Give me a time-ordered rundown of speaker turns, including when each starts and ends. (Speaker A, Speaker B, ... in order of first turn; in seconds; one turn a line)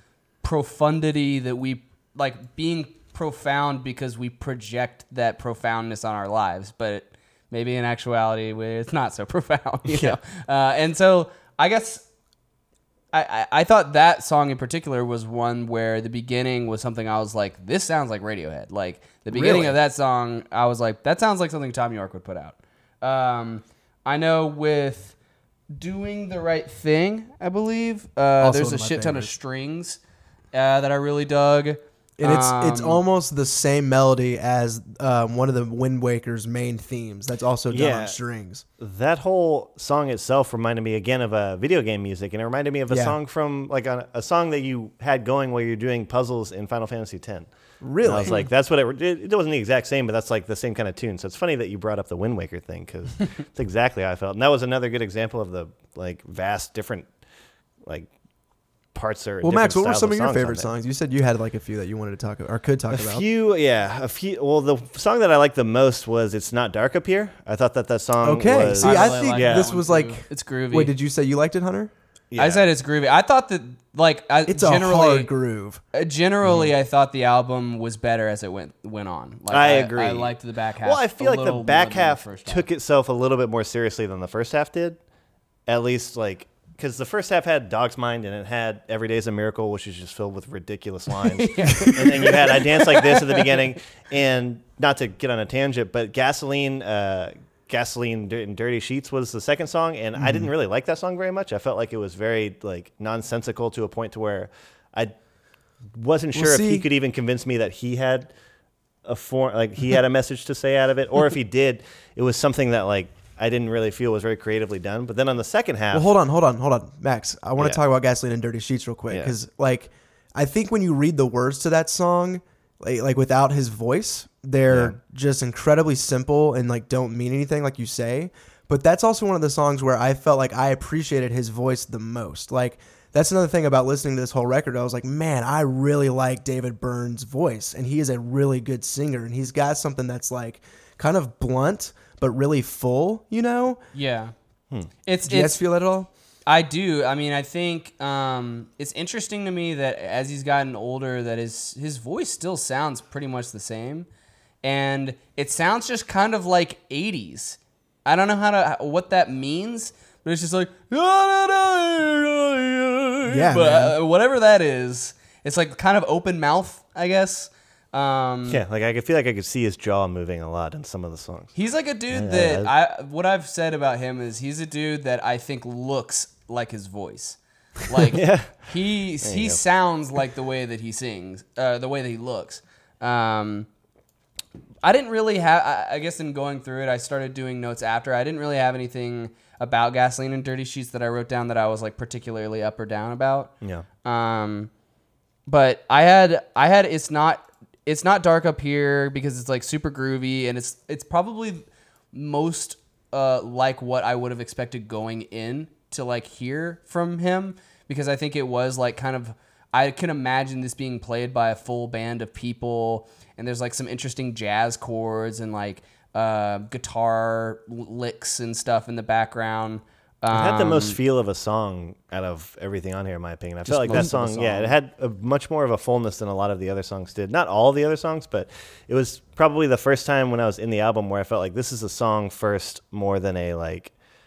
Speaker A: 0.4-12.1
Speaker B: 9.9-10.2
Speaker A: 13.1-25.1
Speaker B: 19.4-19.7
Speaker A: 25.7-30.0
Speaker C: 28.4-29.3
Speaker A: 30.5-33.0
Speaker C: 32.2-38.6
Speaker B: 37.7-38.1
Speaker B: 38.8-47.5
Speaker C: 42.9-43.1
Speaker C: 47.8-48.4
Speaker B: 48.0-57.1
Speaker B: 57.8-58.1
Speaker B: 58.9-60.7
Speaker C: 59.4-63.2
Speaker B: 62.9-69.7
Speaker C: 68.2-71.9
Speaker A: 68.7-70.9
Speaker B: 72.3-72.7
Speaker A: 72.4-75.3
Speaker C: 74.5-75.8
Speaker A: 75.9-82.6
Speaker B: 76.4-76.7
Speaker B: 79.5-85.0
Speaker B: 85.7-105.1
Speaker A: 91.3-93.6
Speaker C: 100.2-100.5
Speaker B: 105.9-108.3
Speaker C: 106.3-106.8
Speaker B: 109.0-116.1
Speaker C: 115.9-143.8
Speaker B: 119.1-119.3
Speaker B: 124.7-125.0
Speaker A: 143.9-144.3
Speaker A: 145.0-145.6
Speaker C: 145.2-146.1
Speaker A: 146.5-154.1
Speaker A: 154.6-168.6
Speaker C: 163.3-163.9
Speaker B: 168.5-171.6
Speaker A: 171.5-183.7
Speaker B: 172.1-172.7
Speaker B: 178.1-179.6
Speaker A: 184.8-193.5
Speaker A: 194.0-194.7
Speaker A: 195.5-221.0
Speaker B: 220.3-233.9
Speaker A: 223.6-224.7